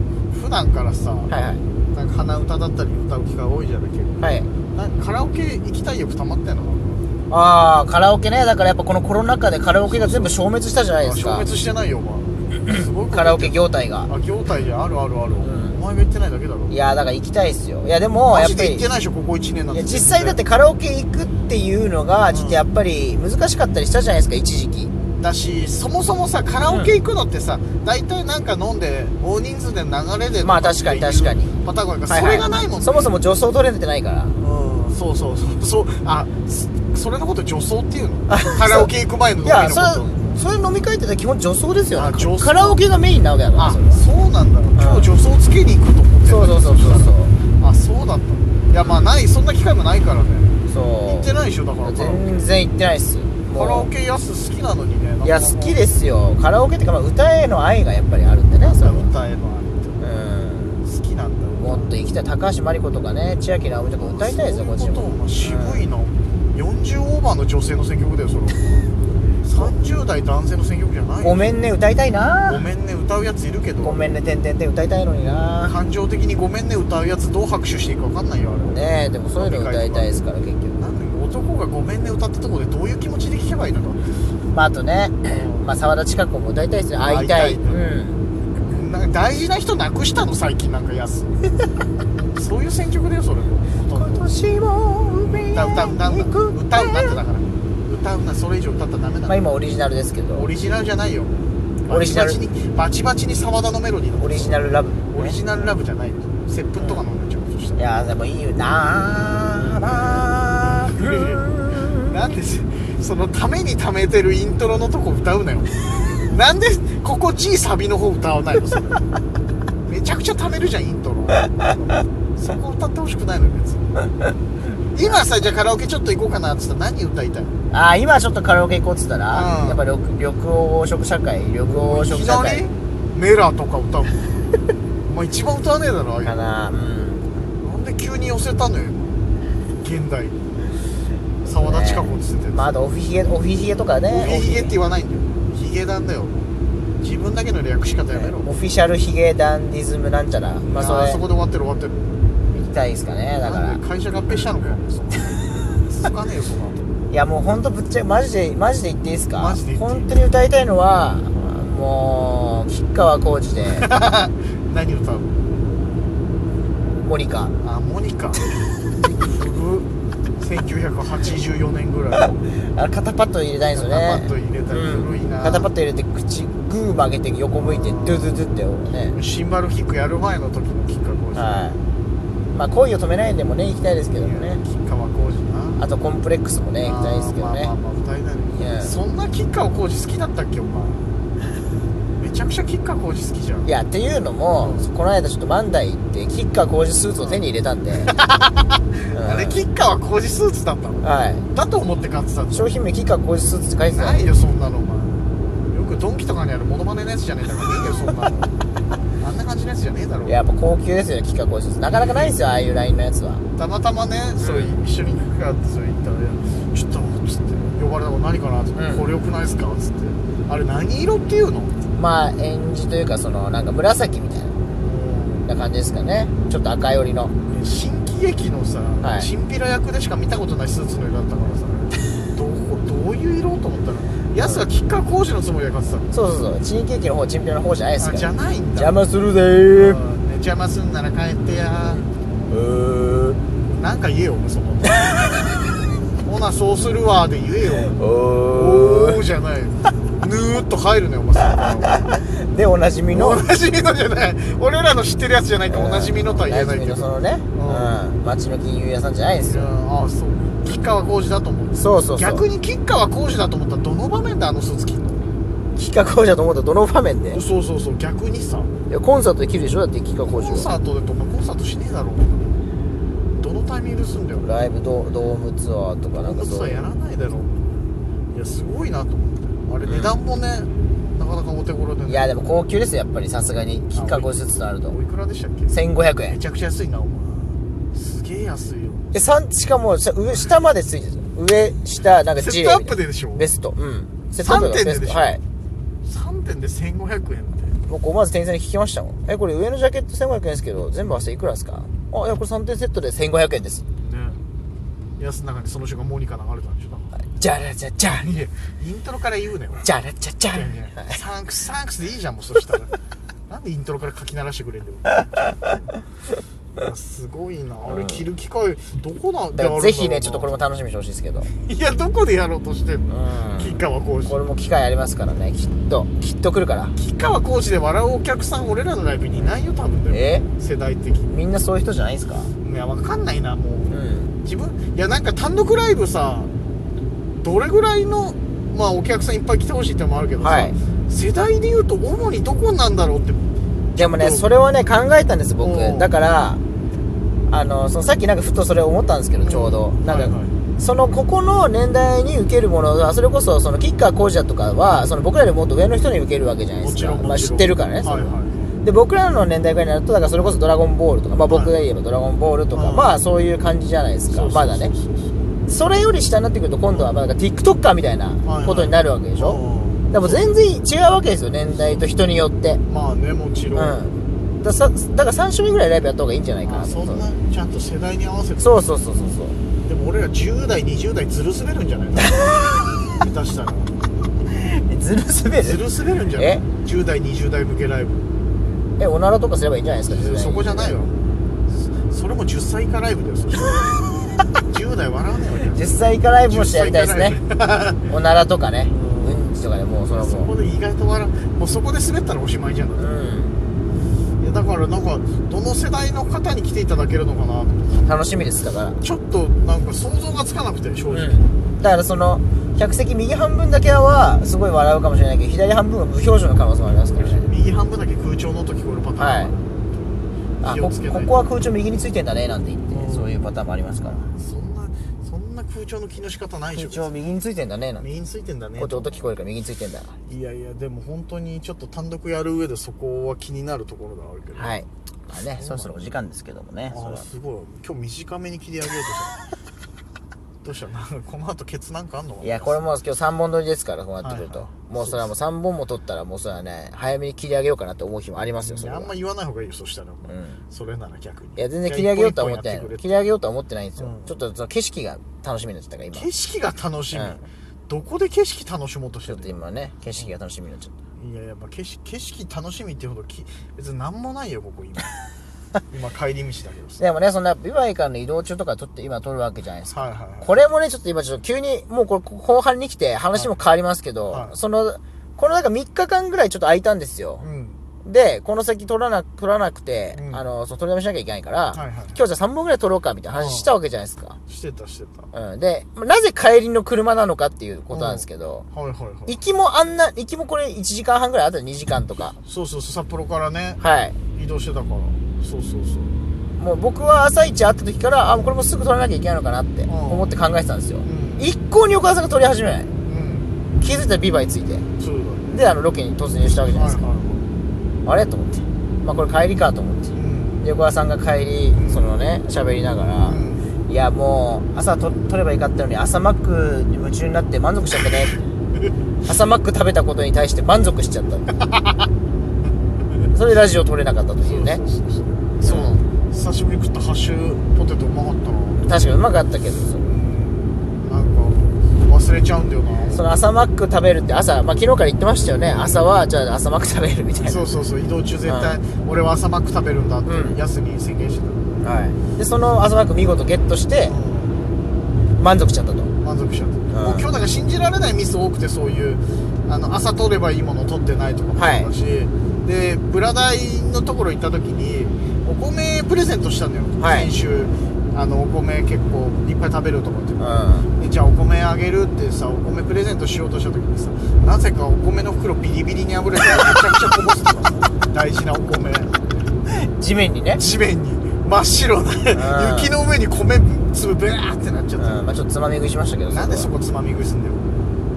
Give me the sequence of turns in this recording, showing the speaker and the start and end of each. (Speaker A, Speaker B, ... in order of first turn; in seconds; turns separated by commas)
Speaker A: 0.3-1.3, Speaker B: 1.3-1.6, Speaker A: 1.9-7.1, Speaker B: 4.2-4.5, Speaker B: 7.3-11.5, Speaker A: 9.7-10.4, Speaker A: 11.0-16.8, Speaker B: 13.1-14.1, Speaker B: 15.4-15.8, Speaker B: 16.7-18.9, Speaker A: 18.3-20.4, Speaker B: 19.7-24.9, Speaker A: 22.3-22.6, Speaker A: 25.2-33.1, Speaker B: 26.6-27.0, Speaker B: 30.4-31.6, Speaker B: 32.1-34.4, Speaker A: 34.4-40.1, Speaker B: 38.3-38.9, Speaker B: 39.4-44.0, Speaker A: 41.9-42.8, Speaker A: 43.5-52.5, Speaker B: 44.8-45.1, Speaker B: 46.2-47.4, Speaker B: 48.8-49.1, Speaker B: 50.7-51.3, Speaker B: 51.8-53.9, Speaker A: 53.5-55.8, Speaker B: 55.2-59.1, Speaker A: 58.6-60.0, Speaker B: 60.0-60.8, Speaker A: 60.8-61.9, Speaker B: 61.6-65.8, Speaker A: 63.6-68.9, Speaker A: 69.4-71.6, Speaker B: 71.2-72.6, Speaker A: 72.5-74.1, Speaker B: 73.8-75.8, Speaker A: 75.2-80.2, Speaker B: 78.6-80.8, Speaker A: 80.7-84.1, Speaker B: 84.5-88.2, Speaker A: 85.2-85.7, Speaker A: 87.0-91.4, Speaker A: 92.2-94.3, Speaker B: 93.9-97.2, Speaker A: 95.1-99.4, Speaker B: 99.3-100.5, Speaker A: 100.3-107.8, Speaker B: 101.9-102.4, Speaker B: 104.2-105.4, Speaker B: 107.8-112.2, Speaker A: 109.5-119.1, Speaker A: 119.8-123.9, Speaker A: 124.9-127.6, Speaker B: 127.7-132.7, Speaker A: 129.3-129.8, Speaker A: 131.6-134.4, Speaker A: 135.1-136.4, Speaker B: 136.2-137.3, Speaker A: 137.4-139.2, Speaker A: 139.8-140.4, Speaker B: 141.4-144.7, Speaker A: 141.4-142.8, Speaker A: 144.1-148.5, Speaker B: 148.1-151.2, Speaker A: 150.7-152.0, Speaker B: 152.5-153.8, Speaker A: 153.4-157.0, Speaker B: 157.1-163.9, Speaker A: 159.3-160.2, Speaker A: 163.7-165.6, Speaker B: 167.0-167.5, Speaker A: 167.6-168.5, Speaker A: 169.0-169.9, Speaker A: 170.4-172.4, Speaker B: 172.6-179.2, Speaker A: 173.7-175.7, Speaker A: 177.6-181.7, Speaker B: 181.3-181.8, Speaker B: 182.5-184.6, Speaker A: 184.1-185.8, Speaker B: 185.8-187.7, Speaker A: 186.8-191.1, Speaker B: 188.6-189.0, Speaker A: 192.2-193.7, Speaker B: 193.7-198.1, Speaker A: 194.6-194.9, Speaker A: 198.0-202.7, Speaker B: 199.1-199.6, Speaker B: 201.0-201.4, Speaker B: 202.5-204.3, Speaker A: 203.8-208.5, Speaker A: 209.2-210.4, Speaker B: 210.3-213.4, Speaker A: 211.9-212.3, Speaker A: 213.6-221.8, Speaker B: 214.4-214.8, Speaker B: 218.8-219.1, Speaker B: 221.9-224.6, Speaker A: 224.8-225.5, Speaker B: 225.4-227.3, Speaker A: 227.5-236.1, Speaker B: 229.0-229.3, Speaker B: 236.1-240.0, Speaker A: 238.0-239.0, Speaker A: 239.7-242.0, Speaker B: 241.5-243.4, Speaker A: 243.6-245.4, Speaker A: 246.2-248.0, Speaker B: 247.7-249.2, Speaker A: 248.5-252.2, Speaker B: 251.6-253.4, Speaker A: 253.1-258.0, Speaker B: 255.7-259.7, Speaker A: 259.4-265.3, Speaker B: 261.8-262.4, Speaker B: 265.8-267.4, Speaker A: 267.3-268.7, Speaker B: 268.9-270.7, Speaker A: 270.3-272.6, Speaker A: 273.4-274.7, Speaker B: 274.4-276.9, Speaker A: 276.1-282.3, Speaker B: 279.8-280.1, Speaker B: 282.1-284.9, Speaker A: 283.9-284.4, Speaker A: 284.9-285.8, Speaker B: 285.7-286.4, Speaker A: 286.3-289.1, Speaker B: 289.1-295.4, Speaker A: 292.3-293.5, Speaker A: 294.4-295.4, Speaker A: 296.0-297.8, Speaker B: 297.9-303.8, Speaker A: 304.0-304.4, Speaker A: 305.2-307.2, Speaker B: 307.4-308.3, Speaker A: 308.1-309.8, Speaker B: 309.8-311.2, Speaker A: 310.5-312.9, Speaker A: 313.5-315.9, Speaker A: 316.8-320.6, Speaker B: 317.9-318.2, Speaker B: 319.5-321.5, Speaker A: 321.5-324.4, Speaker B: 323.1-326.9, Speaker A: 327.0-331.3, Speaker B: 330.1-330.4, Speaker B: 331.3-332.5, Speaker A: 332.6-336.5, Speaker B: 333.9-334.3, Speaker A: 337.4-344.5, Speaker B: 340.4-340.7, Speaker B: 343.9-346.6, Speaker A: 345.6-346.1, Speaker B: 347.5-364.9, Speaker A: 349.4-350.5, Speaker A: 356.8-358.8, Speaker A: 360.3-360.6, Speaker A: 361.5-361.8, Speaker A: 362.7-363.1, Speaker A: 364.3-365.5, Speaker B: 365.7-372.8, Speaker A: 366.9-367.1, Speaker A: 368.4-370.6, Speaker A: 371.7-372.1, Speaker A: 372.9-374.0, Speaker B: 373.7-377.2, Speaker A: 376.6-378.9, Speaker B: 378.6-379.6, Speaker A: 379.8-382.6, Speaker B: 382.4-383.0, Speaker A: 383.1-383.9, Speaker B: 384.5-385.8, Speaker A: 385.6-388.3, Speaker B: 386.4-386.6, Speaker B: 389.0-391.0, Speaker A: 390.1-391.2, Speaker A: 392.0-393.9, Speaker A: 394.7-398.1, Speaker B: 395.7-397.4, Speaker B: 398.1-400.5, Speaker A: 398.9-399.4, Speaker A: 400.1-403.1, Speaker B: 403.0-403.5, Speaker A: 404.4-408.1, Speaker B: 408.0-409.0, Speaker A: 409.0-411.5, Speaker B: 411.1-417.5, Speaker A: 417.2-421.4, Speaker B: 419.2-419.5, Speaker B: 420.6-424.2, Speaker A: 422.9-423.4, Speaker A: 424.0-427.1, Speaker B: 426.7-428.0, Speaker A: 428.0-429.3, Speaker B: 428.8-430.1, Speaker A: 430.2-434.8, Speaker B: 434.6-437.2, Speaker A: 435.6-436.0, Speaker A: 436.9-439.4, Speaker A: 440.6-442.9, Speaker B: 442.4-449.1, Speaker A: 444.2-445.3, Speaker A: 448.6-453.2, Speaker B: 450.2-450.6, Speaker B: 451.6-456.3, Speaker A: 454.0-454.4, Speaker A: 456.1-459.6, Speaker B: 457.1-457.4, Speaker B: 459.2-460.9, Speaker A: 461.1-465.1, Speaker A: 465.9-467.0, Speaker B: 467.0-477.4, Speaker A: 469.9-470.6, Speaker A: 474.3-474.6, Speaker A: 477.4-477.8, Speaker B: 478.0-484.4, Speaker A: 480.1-480.4, Speaker A: 481.7-482.2, Speaker A: 483.3-483.7, Speaker A: 484.5-485.3, Speaker B: 485.3-488.6, Speaker A: 487.9-489.4, Speaker B: 489.3-492.4, Speaker A: 492.4-493.8, Speaker B: 493.8-494.2, Speaker A: 494.3-496.2, Speaker B: 496.6-502.9, Speaker A: 499.9-500.3, Speaker A: 501.0-501.5, Speaker A: 503.0-503.5, Speaker B: 503.8-504.9, Speaker A: 505.0-505.6, Speaker B: 505.5-507.0, Speaker A: 506.7-507.5, Speaker B: 508.0-518.4, Speaker A: 510.1-510.7, Speaker A: 511.7-512.2, Speaker A: 513.2-513.7, Speaker B: 519.2-521.5, Speaker B: 523.3-524.8, Speaker A: 524.4-529.2, Speaker B: 525.6-526.0, Speaker B: 528.9-530.1, Speaker A: 530.0-533.3, Speaker B: 533.1-537.7, Speaker A: 535.7-536.0, Speaker A: 537.4-541.8, Speaker B: 538.5-538.8, Speaker B: 540.2-540.6, Speaker B: 541.8-544.1, Speaker A: 544.0-544.6, Speaker B: 545.4-546.1, Speaker A: 546.2-569.1, Speaker B: 546.9-547.3, Speaker B: 551.5-551.9, Speaker B: 557.0-557.3, Speaker B: 560.4-560.9, Speaker B: 569.7-570.6, Speaker A: 570.5-575.3, Speaker B: 572.3-572.9, Speaker B: 575.0-576.7, Speaker A: 576.3-577.8